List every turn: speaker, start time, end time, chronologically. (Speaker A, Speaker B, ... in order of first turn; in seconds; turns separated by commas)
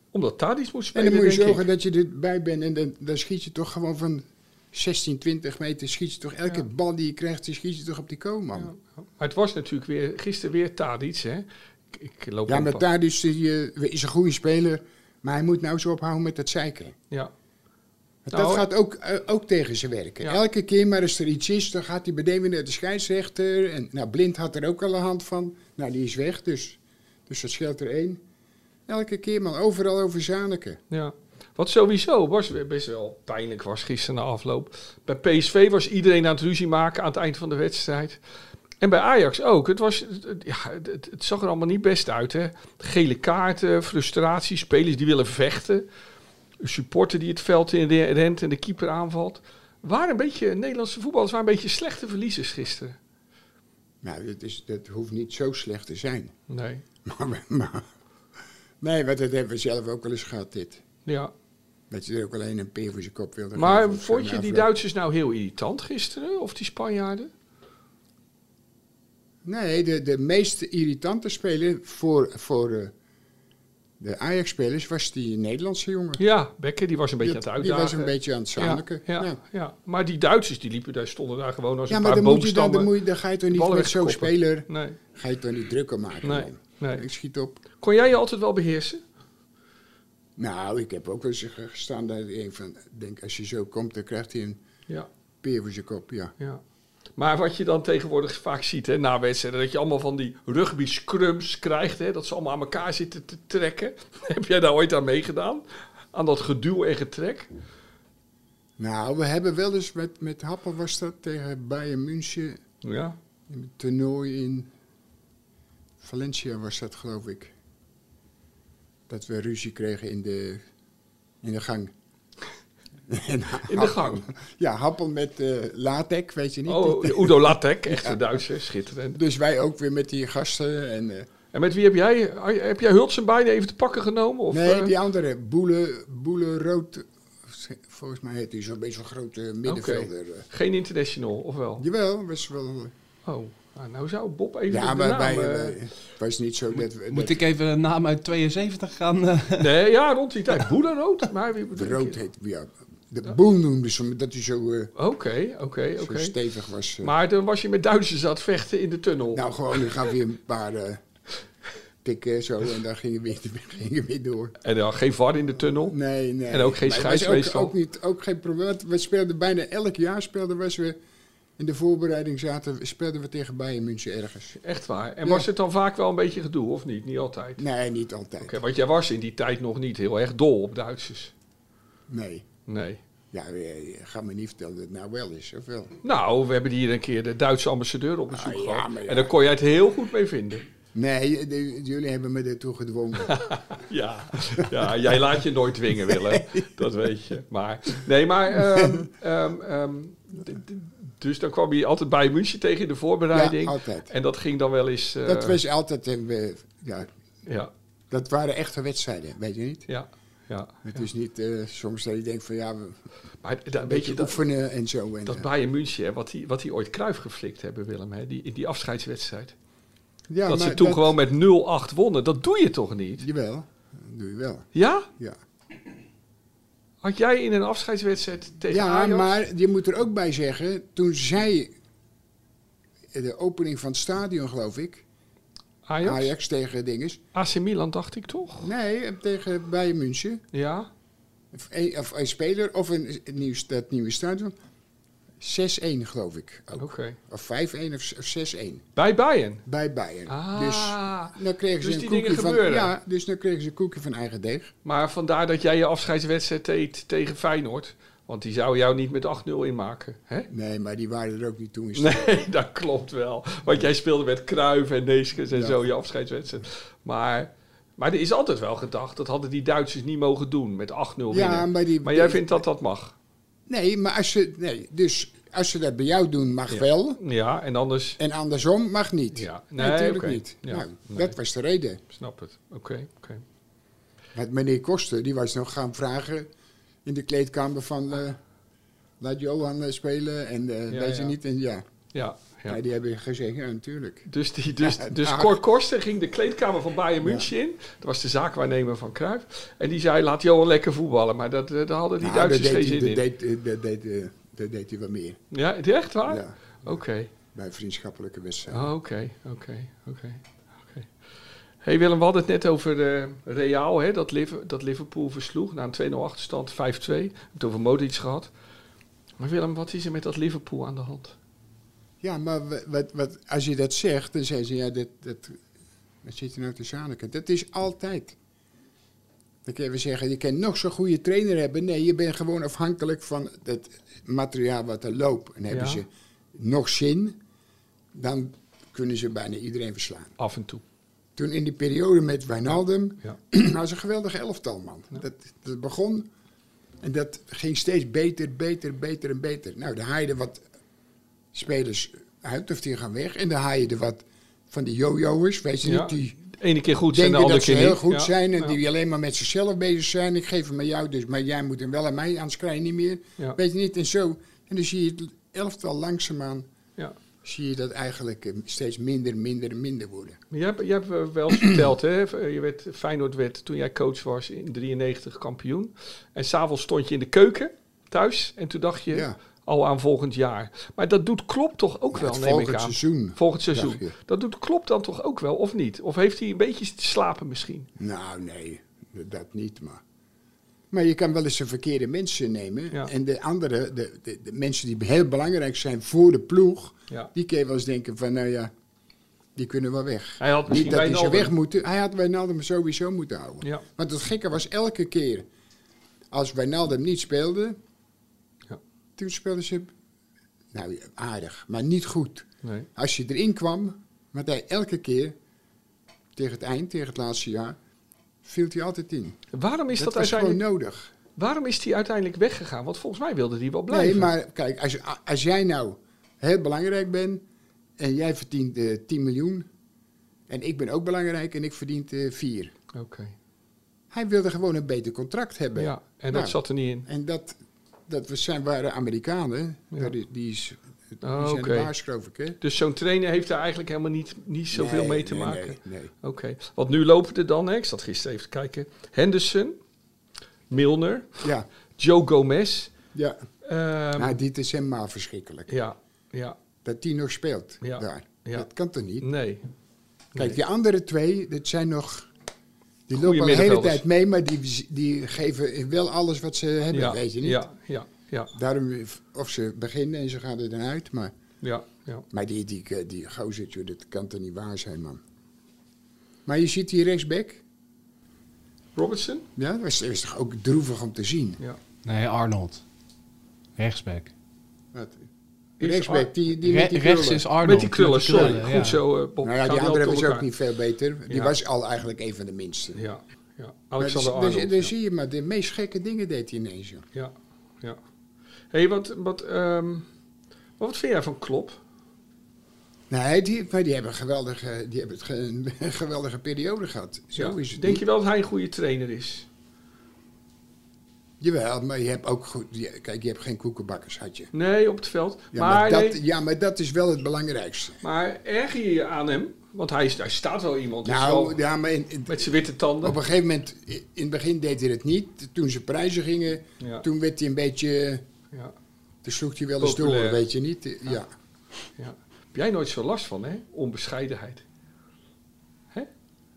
Speaker A: 0.1-1.7, Speaker B: 0.9-8.7, Speaker A: 8.6-12.8, Speaker B: 12.5-17.0, Speaker B: 18.2-28.2, Speaker A: 18.3-18.6, Speaker B: 28.9-30.8, Speaker A: 30.9-38.2, Speaker A: 38.8-45.9, Speaker A: 46.6-53.0, Speaker B: 54.0-56.4, Speaker A: 56.5-56.8, Speaker B: 57.0-57.9, Speaker B: 58.8-60.8, Speaker A: 61.1-61.3, Speaker B: 61.9-64.7, Speaker A: 63.5-67.3, Speaker B: 69.4-72.9, Speaker B: 74.0-76.2, Speaker A: 76.2-83.0, Speaker B: 77.2-79.4, Speaker B: 81.9-87.6, Speaker A: 83.5-85.0, Speaker A: 86.2-87.0, Speaker A: 87.8-89.0, Speaker B: 90.4-94.6, Speaker B: 95.4-96.3, Speaker A: 97.2-107.5, Speaker B: 108.8-112.6, Speaker A: 112.8-113.2, Speaker B: 113.5-114.7, Speaker B: 116.0-117.5, Speaker B: 119.1-120.6, Speaker B: 121.4-121.9, Speaker B: 123.1-128.2, Speaker A: 123.7-124.3, Speaker A: 126.7-129.2, Speaker B: 129.2-131.3, Speaker A: 131.5-134.9, Speaker B: 134.5-140.5, Speaker A: 139.7-141.9, Speaker B: 141.8-142.9, Speaker A: 143.3-145.8, Speaker B: 144.7-147.5, Speaker C: 147.1-149.7, Speaker A: 149.6-152.2, Speaker B: 151.7-154.9, Speaker A: 155.0-156.3, Speaker B: 156.0-157.1, Speaker A: 157.0-160.0, Speaker B: 159.3-161.0, Speaker B: 162.0-164.6, Speaker A: 164.6-166.0, Speaker B: 165.9-171.0, Speaker A: 166.5-167.7, Speaker B: 171.6-174.6, Speaker A: 174.6-177.6, Speaker B: 177.6-178.6, Speaker A: 178.4-181.3, Speaker B: 182.1-182.5, Speaker A: 182.7-183.0, Speaker B: 183.3-186.0, Speaker A: 186.0-190.7, Speaker B: 188.3-189.3, Speaker B: 190.9-193.4, Speaker A: 193.2-205.6, Speaker B: 194.6-194.9, Speaker B: 196.0-196.7, Speaker B: 198.5-199.1, Speaker B: 203.3-204.1, Speaker B: 205.2-207.1, Speaker A: 207.5-207.7, Speaker B: 208.1-209.9, Speaker A: 209.9-211.0, Speaker B: 210.8-213.0, Speaker A: 213.4-214.4, Speaker B: 213.8-215.5, Speaker A: 215.3-219.6, Speaker B: 220.3-221.2, Speaker A: 220.5-223.3, Speaker B: 223.2-225.4, Speaker A: 224.8-225.1, Speaker A: 227.0-229.4, Speaker B: 228.7-231.7, Speaker B: 233.1-235.1, Speaker A: 235.9-236.3, Speaker B: 236.0-237.2, Speaker A: 237.3-238.7, Speaker B: 238.6-240.4, Speaker A: 240.5-240.9, Speaker B: 241.5-244.6, Speaker B: 245.4-248.8, Speaker A: 246.8-247.2, Speaker A: 249.0-249.6, Speaker B: 249.7-254.7, Speaker A: 250.3-252.9, Speaker A: 254.8-260.5, Speaker B: 260.5-262.4, Speaker A: 261.9-273.1, Speaker B: 265.5-265.8, Speaker B: 271.3-272.6, Speaker B: 273.7-277.2, Speaker A: 276.7-278.2, Speaker B: 278.2-282.0, Speaker A: 279.3-281.4, Speaker A: 282.1-283.4, Speaker B: 284.4-286.5, Speaker B: 287.1-288.4, Speaker B: 289.2-291.9, Speaker A: 290.9-291.4, Speaker A: 292.1-292.8, Speaker B: 292.7-294.3, Speaker A: 294.3-303.2, Speaker B: 294.8-295.6, Speaker B: 297.2-297.5, Speaker B: 302.2-305.4, Speaker A: 305.5-307.3, Speaker B: 306.3-306.6, Speaker B: 307.5-308.9, Speaker A: 308.7-311.1, Speaker A: 311.8-318.5, Speaker A: 319.4-321.4, Speaker B: 322.2-325.6, Speaker B: 326.2-328.4, Speaker B: 329.6-337.4, Speaker A: 335.7-336.0, Speaker B: 338.1-340.4, Speaker A: 340.4-340.8, Speaker B: 341.4-346.3, Speaker B: 347.0-350.6, Speaker B: 351.5-356.4, Speaker A: 355.8-358.8, Speaker B: 357.1-366.7, Speaker B: 367.4-370.4, Speaker A: 370.5-387.9, Speaker B: 371.5-371.8, Speaker B: 379.1-379.4, Speaker B: 382.1-384.1, Speaker B: 388.0-390.0, Speaker B: 390.9-398.7, Speaker B: 399.6-405.5, Speaker A: 400.4-401.5, Speaker B: 406.3-407.8, Speaker B: 409.2-409.9, Speaker B: 410.7-415.4, Speaker A: 412.6-412.9, Speaker B: 416.4-417.8, Speaker B: 418.4-419.4, Speaker A: 419.5-420.6, Speaker B: 419.9-421.1, Speaker A: 421.4-424.3, Speaker B: 423.9-427.4, Speaker B: 428.0-429.7, Speaker B: 430.5-432.7, Speaker A: 432.9-433.4, Speaker B: 434.1-442.6, Speaker A: 435.8-437.1, Speaker A: 441.2-441.9, Speaker A: 442.6-449.8, Speaker B: 444.7-446.1, Speaker A: 450.7-451.4, Speaker B: 451.4-451.7, Speaker A: 452.0-452.9, Speaker B: 453.1-453.4, Speaker A: 453.6-454.4, Speaker B: 454.2-455.7, Speaker A: 455.7-456.6, Speaker B: 456.8-459.3, Speaker A: 457.8-458.7, Speaker A: 459.2-459.6, Speaker B: 460.4-462.3, Speaker B: 463.1-467.6, Speaker A: 463.1-464.0, Speaker A: 466.9-468.5, Speaker B: 468.5-471.3, Speaker A: 471.6-472.3, Speaker B: 472.3-475.2, Speaker B: 476.5-477.6, Speaker A: 479.0-479.5, Speaker B: 479.6-481.6, Speaker C: 482.1-482.8, Speaker C: 483.8-484.3, Speaker B: 484.9-485.3, Speaker A: 485.8-486.3, Speaker B: 485.8-487.5, Speaker C: 486.6-489.0, Speaker A: 487.6-490.5, Speaker B: 489.4-493.0, Speaker A: 491.3-491.6, Speaker A: 492.9-494.9, Speaker B: 494.0-497.1, Speaker A: 497.1-498.0, Speaker A: 498.7-500.1, Speaker A: 500.8-501.8, Speaker B: 503.1-508.0, Speaker A: 507.4-509.5, Speaker B: 511.4-514.5, Speaker A: 514.5-516.2, Speaker B: 515.5-518.0, Speaker A: 518.0-521.6, Speaker B: 521.0-528.2, Speaker A: 522.3-523.2, Speaker A: 526.8-527.1, Speaker B: 529.2-531.3, Speaker A: 529.8-530.4, Speaker A: 532.0-534.6